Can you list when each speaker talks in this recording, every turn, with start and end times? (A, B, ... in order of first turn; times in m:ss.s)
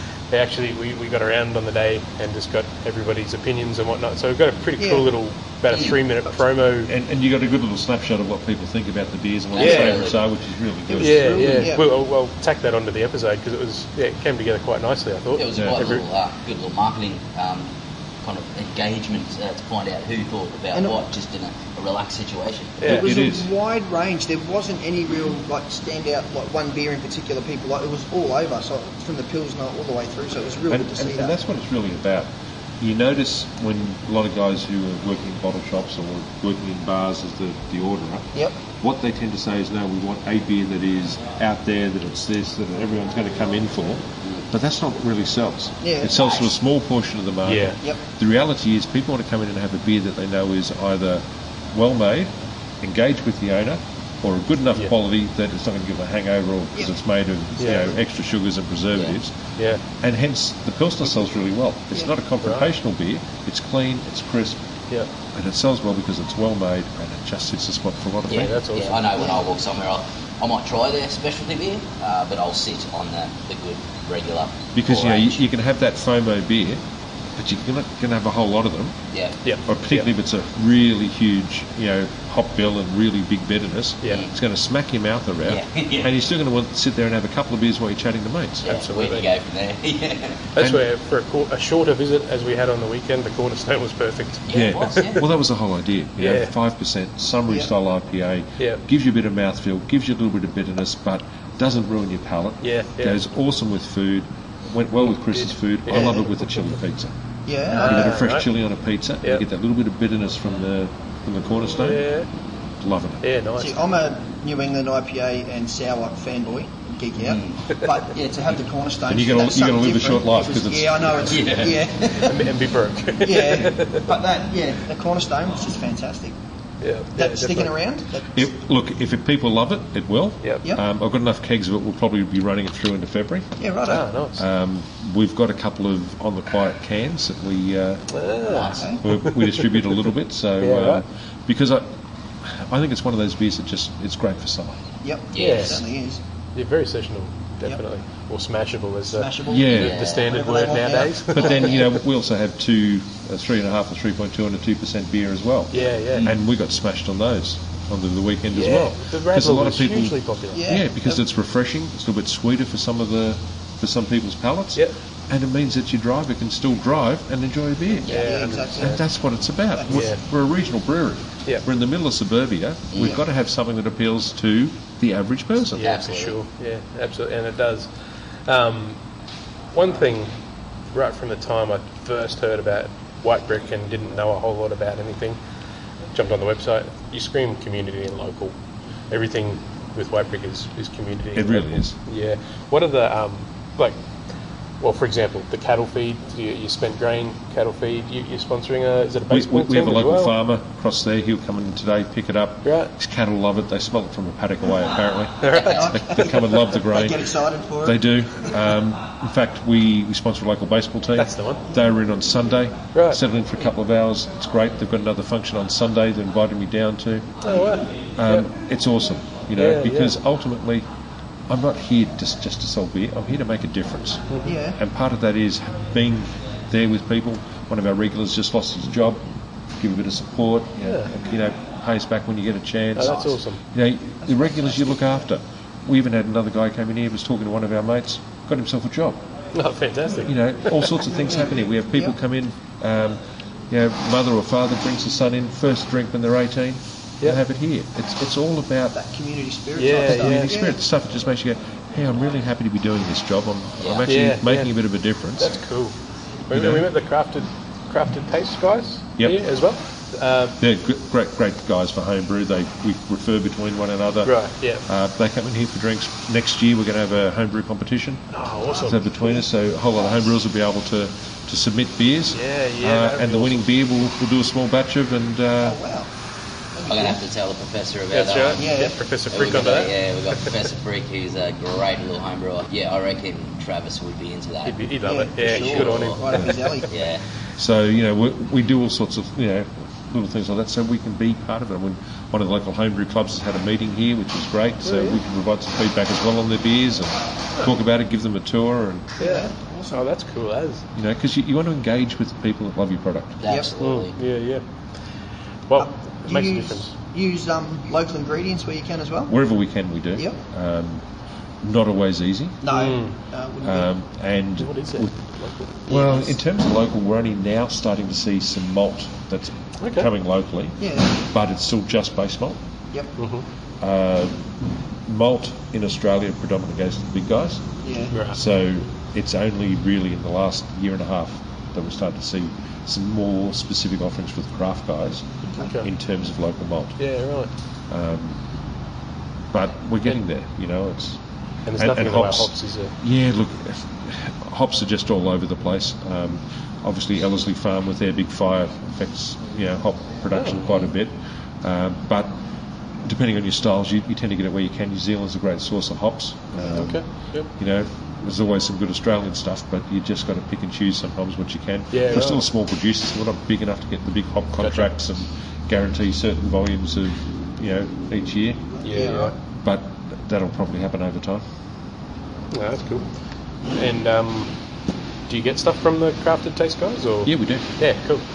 0:00.3-0:06.9 A
0:04.8-0:05.1 B
0:05.7-0:06.0 C
0:06.9-0:11.7 D
0:09.5-0:10.2 C
0:09.6-0:10.0 A
0:10.9-0:11.9 B
0:11.0-0:16.0 A
0:15.4-0:22.8 C
0:15.6-0:15.9 D
0:22.8-0:23.1 A
0:22.8-0:31.4 B
0:22.8-0:23.5 D
0:30.7-0:59.4 D
0:44.2-0:44.5 C
0:45.8-0:46.5 B
0:47.4-0:47.8 A
0:57.5-0:58.0 B
0:57.6-0:57.9 A
0:59.6-0:59.8 A
1:00.0-1:04.6 D
1:02.4-1:02.7 A
1:05.3-1:08.6 D
1:08.3-1:15.4 C
1:08.3-1:09.1 A
1:09.2-1:09.4 B
1:14.8-1:16.8 D
1:17.4-1:19.0 D
1:19.1-1:19.4 C
1:19.4-1:20.1 A
1:19.7-1:28.7 D
1:24.1-1:24.3 C
1:25.4-1:26.1 C
1:28.6-1:30.4 C
1:28.6-1:29.3 A
1:30.5-1:35.1 A
1:30.6-1:30.8 D
1:34.5-1:35.3 C
1:34.5-1:47.1 D
1:36.2-1:36.5 A
1:42.6-1:43.2 A
1:45.0-1:46.5 A
1:45.9-1:46.3 B
1:47.5-1:48.2 B
1:47.7-1:48.5 A
1:47.7-1:52.1 D
1:51.7-1:52.3 A
1:52.8-1:53.2 D
1:53.2-1:53.8 A
1:53.6-2:02.4 B
1:57.2-1:57.6 C
1:59.1-2:01.4 D
2:01.2-2:01.8 C
2:02.2-2:04.1 A
2:03.2-2:06.4 B
2:06.8-2:07.7 A
2:07.2-2:08.4 B
2:08.4-2:13.6 D
2:13.6-2:14.1 B
2:13.9-2:14.4 A
2:14.4-2:18.0 D
2:18.1-2:20.0 A
2:18.4-2:19.0 C
2:18.8-2:19.0 B
2:19.0-2:24.8 D
2:20.6-2:21.0 A
2:25.0-2:26.2 B
2:25.3-2:25.8 C
2:25.4-2:25.8 A
2:26.6-2:32.0 A
2:29.1-2:31.9 B
2:29.5-2:30.0 D
2:29.7-2:30.3 C
2:31.3-2:48.2 D
2:35.7-2:36.3 A
2:38.5-2:40.6 A
2:40.5-2:41.2 B
2:48.0-2:48.3 C
2:48.1-2:49.0 A
2:48.2-2:49.0 B
2:48.8-2:56.0 D
2:49.8-2:50.0 B
2:49.9-2:50.2 A
2:52.9-2:53.2 C
2:55.8-2:59.0 A
2:55.8-2:56.4 C
2:59.7-3:00.3 A
3:00.9-3:05.4 A
3:06.1-3:08.6 A
3:09.1-3:14.0 A
3:11.4-3:12.0 D
3:14.8-3:20.4 A
3:19.3-3:37.4 D
3:22.6-3:22.9 A
3:25.4-3:26.3 A
3:25.5-3:25.8 C
3:25.8-3:28.0 B
3:31.2-3:31.7 A
3:32.9-3:33.2 A
3:37.4-3:38.5 A
3:38.2-3:40.9 D
3:39.6-3:40.2 A
3:41.5-3:49.2 D
3:44.4-3:44.8 B
3:49.8-3:59.3 D
3:50.8-3:51.1 A
3:53.0-3:53.6 A
3:54.2-3:55.3 B
3:59.5-4:01.1 A
4:00.2-4:09.0 D
4:08.9-4:10.8 B
4:09.8-4:10.6 A
4:10.1-4:15.6 D
4:13.8-4:14.1 C
4:14.1-4:14.7 A
4:15.4-4:16.0 A
4:16.5-4:20.6 A
4:16.5-4:16.9 D
4:20.6-4:35.8 D
4:24.2-4:24.8 A
4:28.3-4:29.0 A
4:28.9-4:29.4 B
4:32.3-4:33.7 A
4:35.6-4:36.1 B
4:36.8-4:37.2 B
4:36.9-4:38.7 C
4:38.1-4:40.5 A
4:38.6-4:39.0 B
4:39.3-4:47.2 C
4:44.6-4:46.8 A
4:45.0-4:46.9 B
4:47.6-4:59.2 D
4:54.8-4:55.2 A
4:59.2-5:00.0 B
4:59.2-5:00.8 A
5:01.0-5:03.4 D
5:03.4-5:04.2 C
5:03.4-5:03.7 B
5:03.8-5:04.6 A
5:05.7-5:06.9 A
5:05.8-5:09.4 B
5:09.3-5:11.0 D
5:11.6-5:12.6 D
5:12.6-5:13.9 B
5:12.7-5:13.2 A
5:13.6-5:15.2 D
5:14.6-5:15.8 A
5:15.9-5:22.6 D
5:15.9-5:16.4 B
5:19.8-5:20.1 A
5:20.8-5:21.2 B
5:23.2-5:23.4 A
5:23.8-5:24.5 D
5:25.0-5:27.7 D
5:27.8-5:28.2 B
5:28.1-5:28.4 A
5:28.3-5:37.0 D
5:35.6-5:35.9 A
5:37.0-5:37.5 A
5:37.9-5:38.4 D
5:39.5-5:41.2 D
5:41.7-5:42.9 A
5:41.8-5:52.4 D
5:50.3-5:50.6 A
5:53.0-5:57.0 D
5:56.6-5:56.9 B
5:56.7-5:57.5 A
5:57.5-6:08.6 D
6:01.9-6:02.4 A
6:04.6-6:04.9 A
6:08.8-6:09.4 B
6:08.8-6:09.3 A
6:09.6-6:11.4 D
6:12.5-6:13.1 A
6:13.7-6:14.5 A
6:15.3-6:18.2 A
6:17.2-6:17.7 D